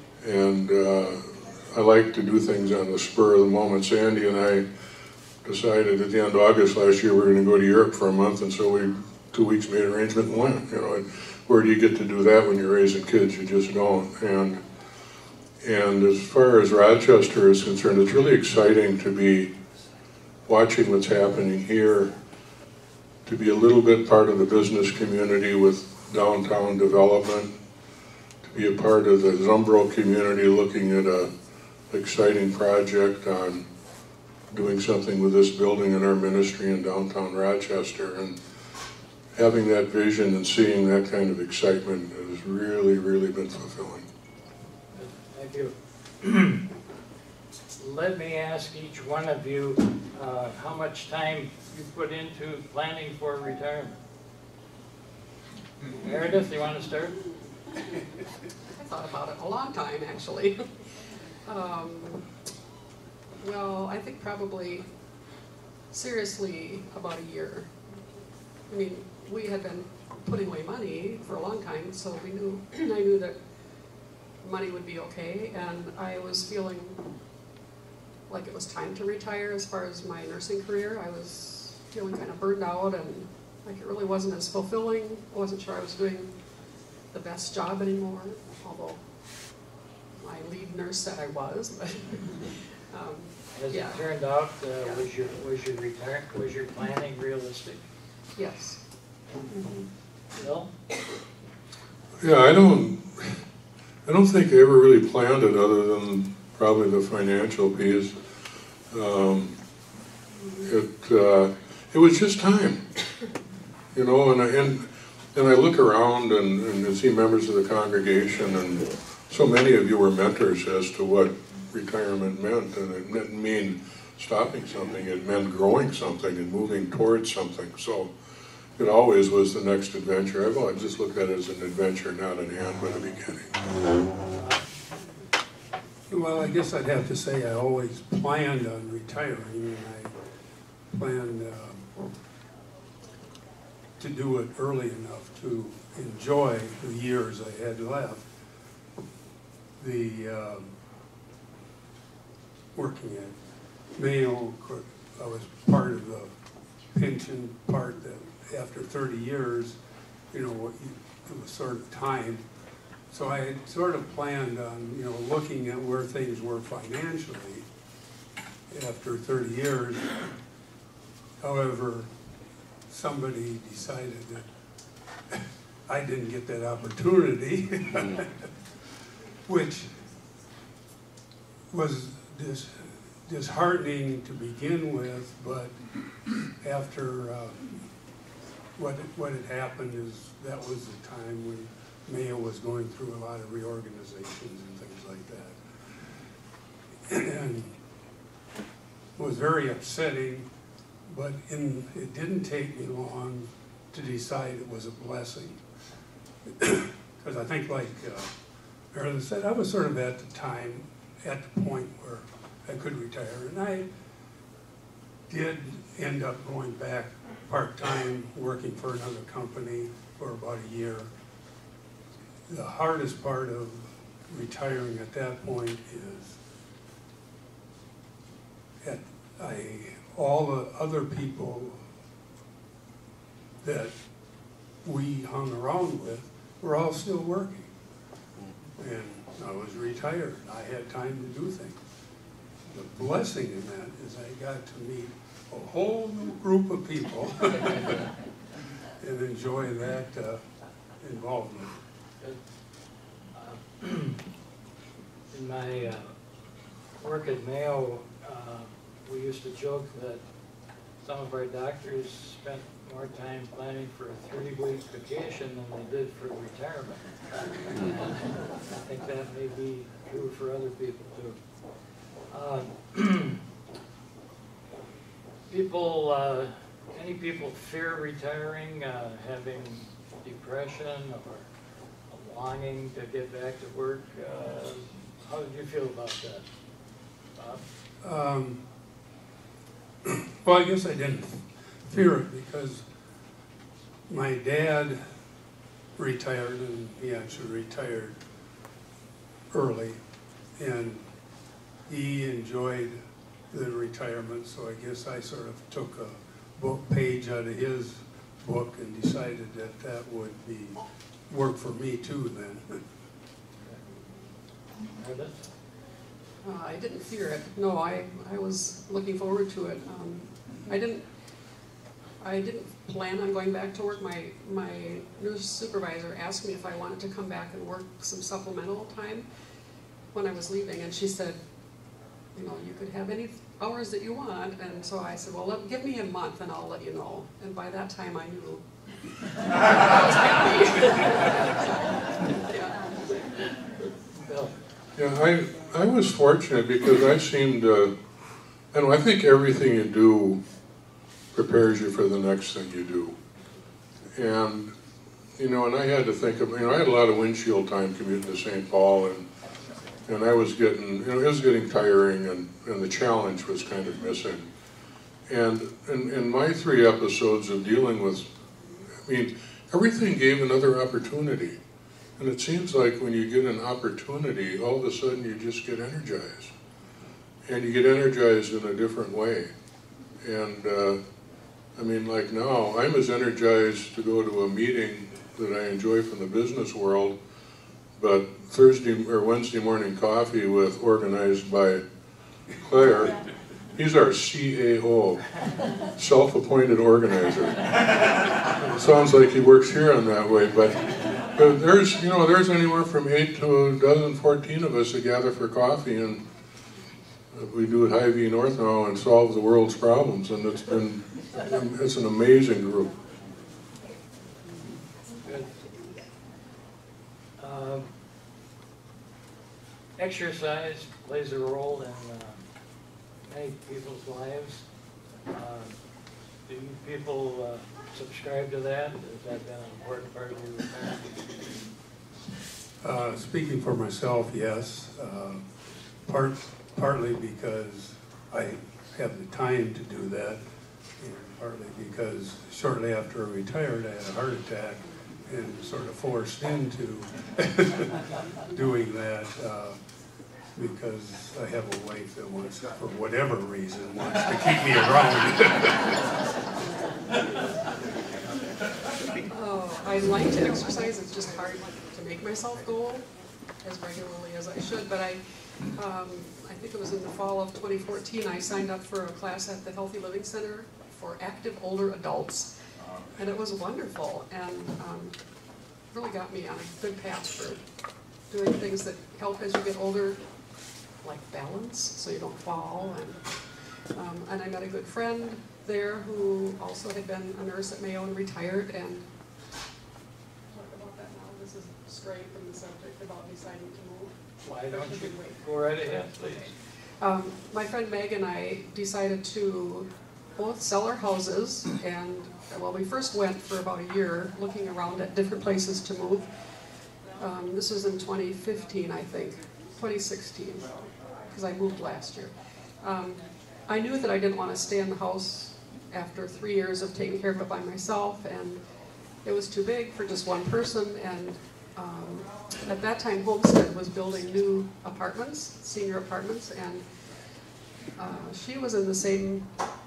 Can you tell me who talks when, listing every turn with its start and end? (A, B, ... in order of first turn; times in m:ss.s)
0:00.2-0:04.6 A
0:05.4-0:14.6 A
0:15.6-0:19.5 A
0:20.5-0:22.1 A
0:23.3-0:27.6 A
0:28.4-0:31.3 A
0:31.9-0:33.6 A
0:34.5-0:38.4 A
0:39.4-0:44.1 A
0:44.9-0:46.6 B
0:47.8-0:54.0 B
0:56.0-0:57.2 B
0:58.8-1:00.6 C
1:01.4-1:02.3 C
1:03.4-1:04.9 C
1:05.9-1:07.7 C
1:08.7-1:13.4 C
1:14.4-1:17.0 C
1:18.3-1:26.3 C
1:27.1-1:29.0 C
1:30.2-1:34.0 C
1:33.6-1:37.8 B
1:38.4-1:38.8 C
1:39.5-1:39.9 C
1:40.4-1:40.7 B
1:42.2-1:43.4 A
1:44.0-1:48.2 A
1:48.9-1:49.6 A
1:50.6-1:52.8 A
1:53.9-2:08.1 A
2:08.8-2:13.6 A
2:14.3-2:14.6 B
2:16.1-2:20.2 D
2:20.9-2:22.1 D
2:24.0-2:28.3 D
2:29.8-2:30.7 D
2:32.7-2:33.4 D
2:34.0-2:36.3 D
2:36.9-2:39.8 D
2:40.3-2:42.4 D
2:43.1-2:47.7 D
2:48.7-2:50.2 D
2:51.4-2:52.1 D
2:52.9-2:54.5 D
2:55.3-2:58.5 D
2:59.5-2:59.9 D
3:01.7-3:05.8 D
3:06.6-3:07.8 D
3:08.8-3:15.6 D
3:17.1-3:17.8 D
3:19.2-3:20.5 D
3:21.1-3:25.6 D
3:26.5-3:28.3 D
3:28.9-3:33.9 D
3:35.3-3:41.1 D
3:42.5-3:46.4 D
3:48.8-3:51.8 D
3:53.6-3:54.0 D
3:54.8-3:57.7 D
3:58.8-4:01.8 D
4:02.7-4:08.0 D
4:09.0-4:10.4 D
4:11.0-4:11.8 D
4:13.4-4:14.2 B
4:15.3-4:16.1 B
4:17.0-4:20.2 B
4:21.0-4:27.1 B
4:27.7-4:31.4 B
4:32.3-4:33.4 B
4:35.5-4:41.5 B
4:42.1-4:46.4 B
4:47.4-4:47.6 B
4:48.0-4:48.6 D
4:50.0-4:52.8 D
4:54.1-4:55.0 D
4:56.0-4:58.2 D
4:59.5-5:00.0 D
5:00.6-5:01.1 D
5:01.9-5:12.8 D
5:15.0-5:15.5 B
5:16.4-5:21.0 C
5:22.2-5:29.3 C
5:30.1-5:31.4 C
5:32.4-5:38.6 C
5:39.6-5:42.8 C
5:44.2-5:44.5 B
5:45.0-5:47.9 A
5:48.7-5:50.4 A
5:51.3-5:53.2 A
5:54.2-5:54.7 A
5:55.4-5:59.3 A
6:00.1-6:04.5 A
6:05.3-6:08.3 A
6:09.0-6:11.6 A
6:12.2-6:16.5 A
6:17.5-6:19.5 A
6:20.2-6:21.0 A
6:21.8-6:27.2 A
6:28.0-6:31.8 A
6:32.6-6:33.2 A
6:33.8-6:35.2 A
6:36.0-6:46.2 A
6:47.3-6:52.9 A
6:55.2-6:55.5 B
6:57.4-6:57.9 B
7:00.0-7:02.4 B
7:03.2-7:04.6 B
7:05.3-7:05.8 B
7:06.5-7:11.4 B
7:12.8-7:15.4 D
7:16.0-7:20.4 D
7:21.0-7:29.8 D
7:30.6-7:36.1 D
7:39.3-7:43.1 C
7:43.6-7:45.2 C
7:45.7-7:52.5 C
7:53.2-7:55.2 C
7:55.9-7:57.6 C
7:58.3-8:00.2 C
8:01.0-8:03.2 C
8:03.9-8:09.1 C
8:10.5-8:15.4 C
8:14.4-8:16.5 B
8:17.0-8:26.3 C
8:27.2-8:38.6 C
8:39.2-8:46.8 C
8:48.0-8:49.5 C